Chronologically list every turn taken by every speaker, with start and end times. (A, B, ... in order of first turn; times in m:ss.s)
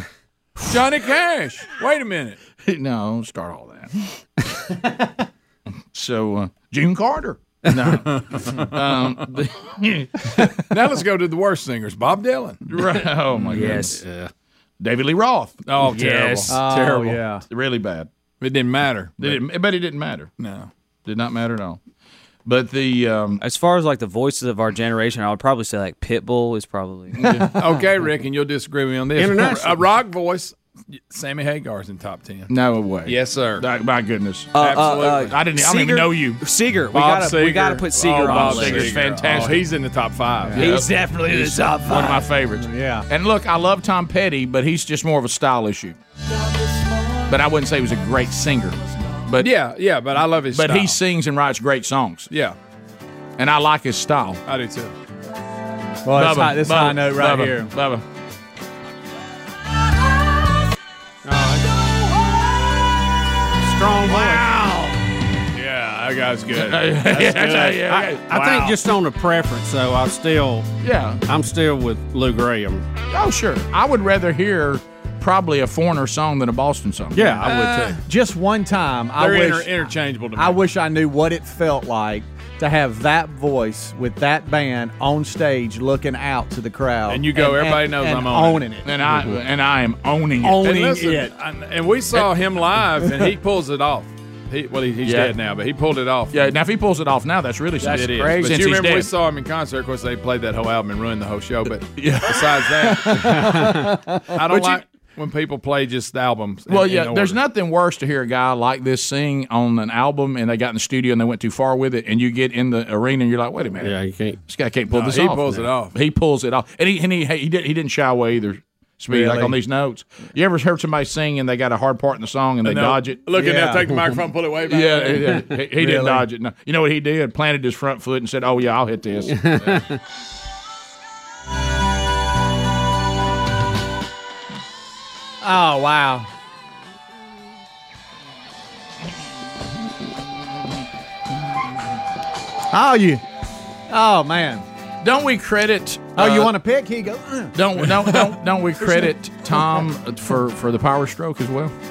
0:00.6-0:02.4 A
0:02.6-0:04.1 B
0:05.9-0:10.6 B
0:08.1-0:08.6 A
0:10.7-0:12.7 A
0:12.7-0:14.0 B
0:13.5-0:14.3 C
0:13.6-0:14.0 D
0:14.8-0:18.1 B
0:15.7-0:16.6 A
0:15.9-0:16.4 C
0:16.5-0:17.4 E
0:18.4-0:19.4 A
0:19.2-0:20.3 B
0:20.4-0:20.7 A
0:21.0-0:21.8 B
0:22.4-0:23.4 B
0:23.4-0:27.3 D
0:27.2-0:27.6 B
0:27.4-0:32.5 A
0:29.2-0:29.8 C
0:32.5-0:34.6 B
0:33.0-0:33.6 A
0:34.5-0:39.2 D
0:34.6-0:35.4 A
0:35.2-0:36.4 B
0:36.9-0:40.7 A
0:38.1-0:39.7 B
0:40.6-0:46.0 B
0:40.6-0:42.3 D
0:42.6-0:43.1 E
0:47.3-0:49.6 B
0:49.4-0:51.0 A
0:50.5-0:52.3 B
0:52.3-0:52.6 A
0:53.4-0:54.4 B
0:54.5-0:54.9 A
0:56.0-0:57.7 E
0:56.1-0:58.0 B
1:01.3-1:01.7 C
1:03.6-1:04.4 C
1:03.9-1:05.0 B
1:05.5-1:07.7 A
1:06.5-1:08.5 B
1:08.3-1:10.7 C
1:10.8-1:11.2 B
1:11.3-1:12.9 C
1:13.1-1:17.5 B
1:17.2-1:18.0 A
1:17.2-1:19.7 E
1:19.2-1:20.6 A
1:20.4-1:29.3 E
1:27.1-1:28.8 A
1:28.8-1:30.8 B
1:30.4-1:31.3 E
1:30.6-1:36.4 A
1:35.0-1:35.4 B
1:36.3-1:39.1 B
1:37.8-1:47.4 A
1:42.0-1:43.5 B
1:43.1-1:44.4 E
1:44.5-1:44.8 B
1:46.7-1:53.9 B
1:53.8-1:54.4 C
1:54.5-2:03.2 B
1:54.9-1:56.0 A
1:59.1-1:59.5 A
2:02.6-2:05.4 A
2:03.4-2:03.9 E
2:04.7-2:09.8 B
2:05.8-2:06.3 E
2:09.3-2:10.0 C
2:15.4-2:16.3 E
2:22.7-2:23.2 E
2:23.9-2:24.6 E
2:25.0-2:26.6 B
2:26.2-2:28.1 E
2:27.6-2:31.7 B